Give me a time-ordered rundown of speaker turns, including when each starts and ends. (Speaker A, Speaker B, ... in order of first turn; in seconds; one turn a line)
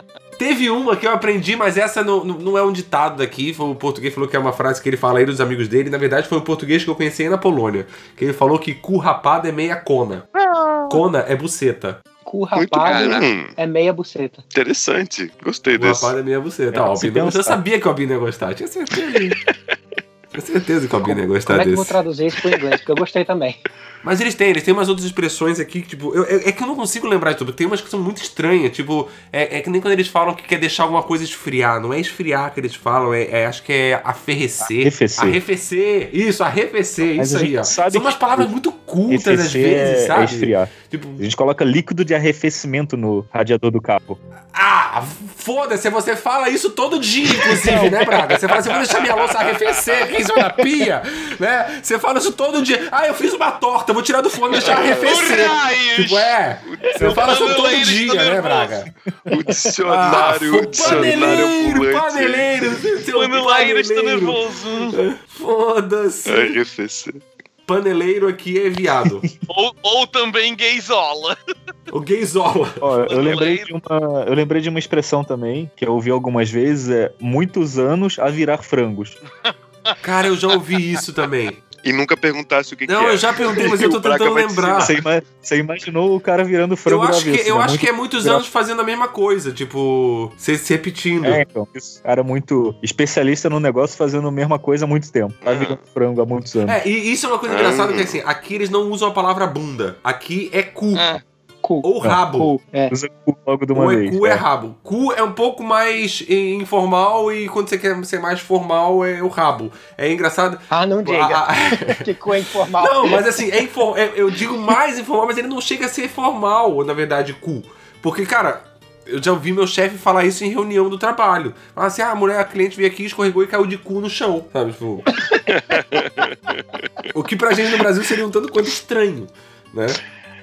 Speaker A: 0.4-10.3
Speaker B: 10.4-10.9
Speaker A: 10.9-12.0
Speaker C: 12.3-14.4
Speaker B: 12.6-13.5
Speaker D: 12.8-13.2
Speaker B: 14.5-16.1
Speaker A: 15.7-19.4
Speaker E: 16.7-17.6
Speaker A: 20.4-22.0
Speaker C: 21.1-23.6
Speaker A: 24.0-41.2
Speaker E: 34.6-35.4
Speaker E: 37.1-38.5
Speaker E: 39.1-44.2
Speaker A: 44.5-58.9
Speaker D: 47.6-47.9
Speaker D: 48.6-50.1
Speaker B: 54.6-55.5
Speaker D: 54.6-56.4
Speaker B: 56.7-57.7
Speaker D: 57.0-58.9
Speaker B: 59.3-62.6
Speaker A: 59.9-64.4
Speaker D: 60.8-61.3
Speaker D: 63.1-65.0
Speaker A: 64.9-66.6
Speaker B: 66.3-67.2
Speaker A: 67.7-69.2
Speaker D: 69.5-71.4
Speaker A: 71.9-72.8
Speaker E: 72.8-79.2
Speaker D: 73.1-73.7
Speaker D: 79.5-80.0
Speaker A: 80.0-81.6
Speaker B: 81.7-84.9
Speaker A: 82.9-84.9
Speaker E: 84.8-88.5
Speaker A: 86.9-91.4
Speaker E: 91.2-96.8
Speaker B: 95.4-95.8
Speaker A: 96.7-101.1
Speaker B: 97.5-98.2
Speaker D: 101.0-101.2
Speaker C: 101.6-102.9
Speaker A: 101.8-102.5
Speaker E: 102.9-104.4
Speaker A: 103.7-112.0
Speaker C: 110.7-113.2
Speaker A: 112.8-125.1
Speaker B: 125.5-127.0
Speaker A: 127.1-130.0